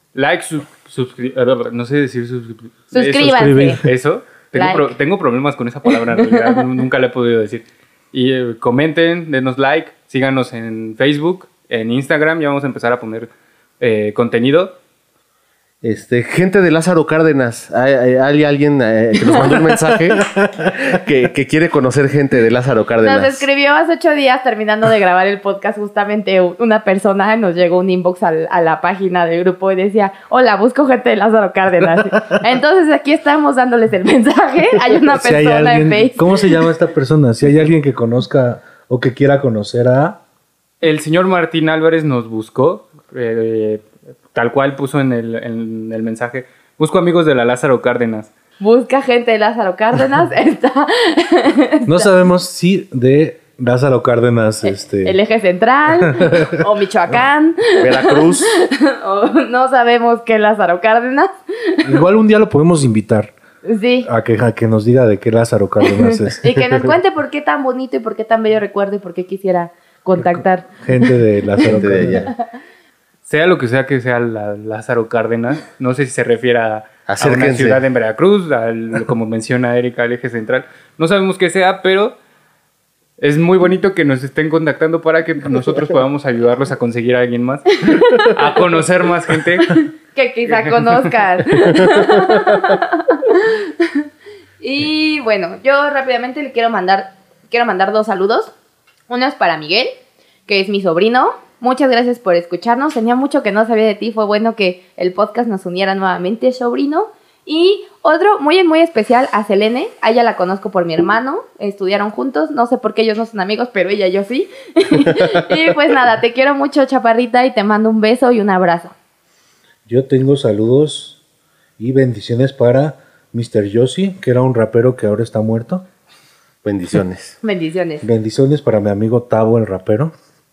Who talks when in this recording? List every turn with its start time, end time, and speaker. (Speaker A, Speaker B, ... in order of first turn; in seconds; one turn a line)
Speaker A: 0.1-14.7
Speaker B: 2.9-3.8
Speaker C: 3.1-3.9
Speaker B: 4.5-4.9
Speaker D: 15.8-23.4
Speaker B: 23.0-36.5
Speaker C: 35.1-40.2
Speaker A: 40.8-48.3
Speaker B: 48.6-52.1
Speaker C: 51.9-55.2
Speaker B: 54.6-61.9
Speaker C: 56.0-56.6
Speaker D: 57.8-58.5
Speaker C: 61.8-63.3
Speaker B: 63.6-64.1
Speaker C: 64.0-66.9
Speaker B: 65.9-71.1
Speaker C: 70.2-72.3
Speaker D: 71.6-72.3
Speaker A: 73.2-82.1
Speaker D: 77.1-77.8
Speaker A: 83.2-89.8
Speaker B: 87.7-88.4
Speaker B: 89.6-94.0
Speaker B: 94.6-98.5
Speaker B: 99.1-99.9
Speaker B: 100.5-118.9
Speaker C: 119.8-121.2
Speaker C: 121.8-125.8
Speaker D: 126.6-127.4
Speaker B: 127.4-128.0
Speaker C: 128.0-130.1